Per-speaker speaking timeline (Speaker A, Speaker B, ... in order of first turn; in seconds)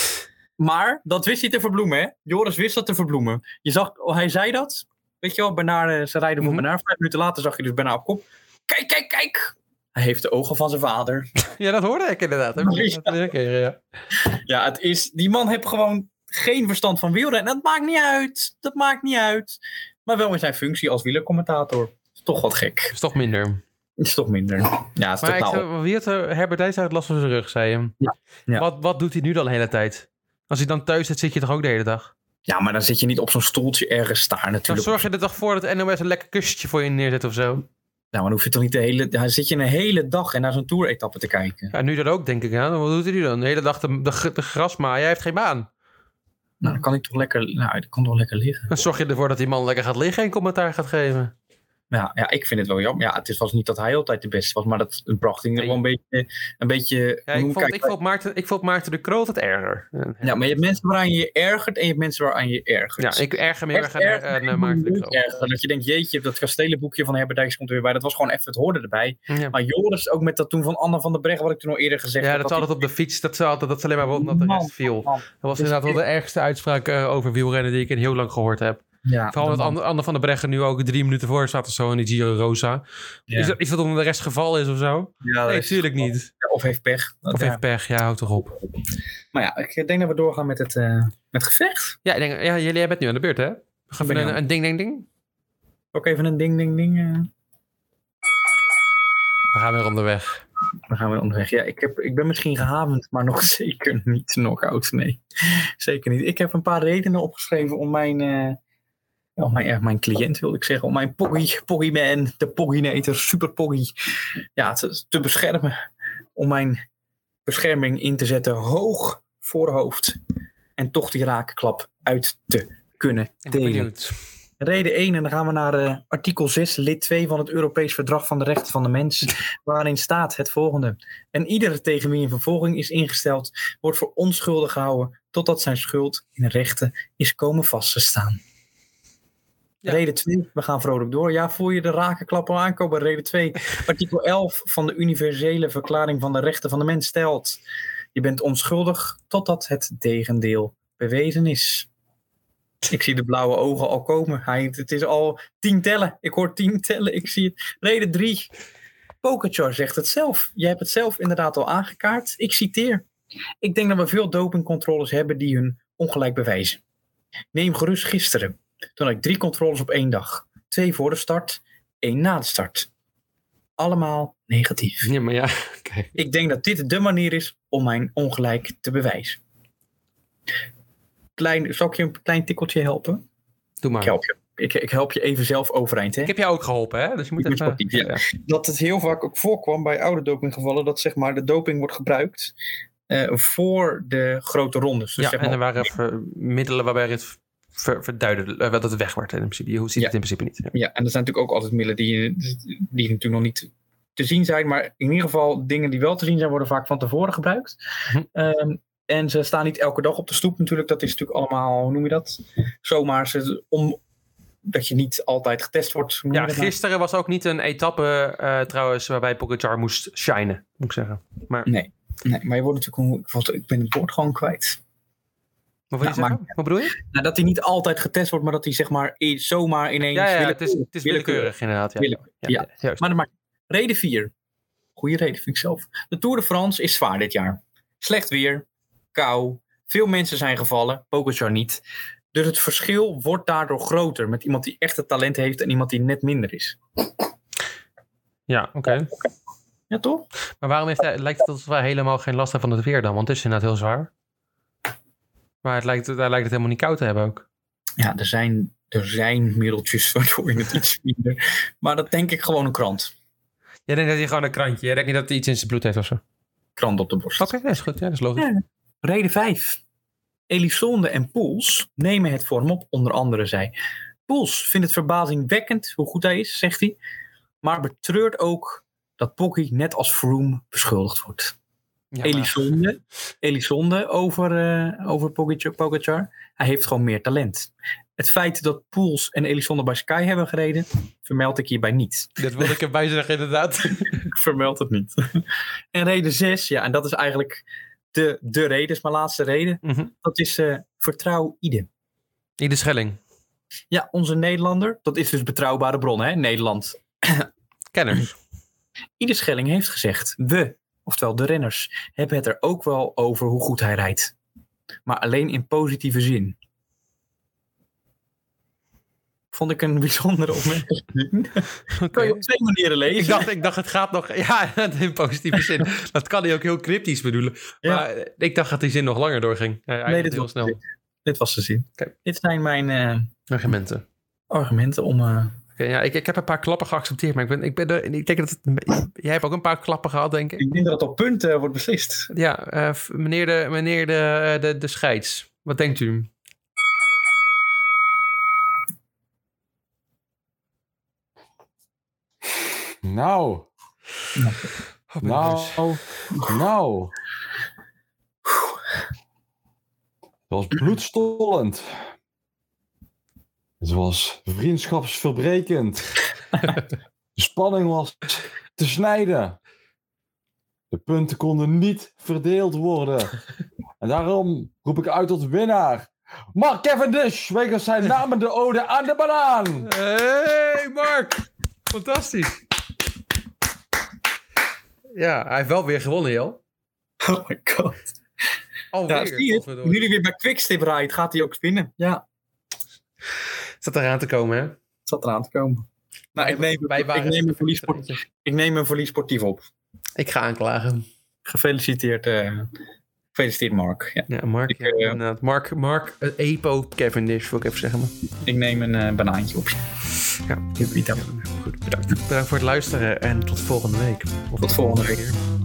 Speaker A: 0.6-11.3, 12.6-13.2, 14.2-22.9, 24.0-25.6, 28.0-28.6, 32.5-35.0, 38.1-41.7, 46.6-48.7, 51.9-57.9, 60.2-72.8, 74.1-76.0, 79.0-79.7, 83.3-83.5, 85.2-87.6, 89.3-92.0, 94.0-94.4, 95.9-97.3, 100.9-108.6, 109.4-113.9, 114.5-115.7, 116.3-116.8, 117.5-120.2, 120.8-123.9, 124.6-138.4, 139.8-147.6, 148.1-151.9, 152.8-158.5, 159.2-163.0, 163.6-166.8, 167.5-172.9, 173.8-175.1, 176.2-179.4, 181.4-183.2, 184.0-186.3, 187.4-192.5, 193.1-195.6, 200.7-207.8, 208.3-214.0, 214.6-216.7, 221.7-224.8, 226.0-234.3, 234.9-241.8, 242.3-246.8, 249.9-250.2, 258.0-263.1, 266.8-267.5, 268.4-269.8, 270.5-273.7, 274.3-277.0, 277.6-281.5, 282.2-292.7, 294.0-301.9, 303.9-307.5, 309.2-314.3, 315.1-316.6, 319.5-323.5, 330.1-333.3, 334.5-335.6, 340.6-342.3, 354.4-354.7, 358.4-358.7, 387.2-388.1, 389.1-392.2, 395.1-399.7, 401.4-402.7, 403.3-405.2, 408.4-409.8, 410.8-411.3, 414.6-415.2
Speaker B: 11.5-13.8, 22.9-23.6, 25.2-28.0, 28.5-32.1, 34.7-37.6, 41.7-45.7, 48.7-51.3, 57.3-60.8, 63.0-65.2, 69.3-69.5, 72.2-86.3, 87.3-88.6, 92.0-95.1, 99.5-100.4, 123.4-124.2, 175.0-176.1, 183.8-184.2, 186.2-188.2, 195.2-200.7, 216.3-221.7, 225.9-227.0, 230.1-233.1, 248.5-249.1, 250.6-254.1, 255.6-257.4, 263.9-266.2, 267.4-268.5, 282.1-282.7, 292.4-294.3, 299.8-300.1, 302.6-303.2, 307.9-308.3, 321.9-322.4, 323.1-330.8, 333.5-334.0, 335.8-340.7, 342.3-346.3, 355.1-355.8, 379.8-382.6, 385.1-386.6, 388.9-390.0, 393.8-394.8, 396.4-398.2, 400.2-401.1, 404.3-408.1, 410.5-415.4
Speaker C: 353.0-353.7, 355.2-357.1, 360.5-361.9, 363.8-366.2, 367.4-369.6, 370.9-373.4, 374.0-379.9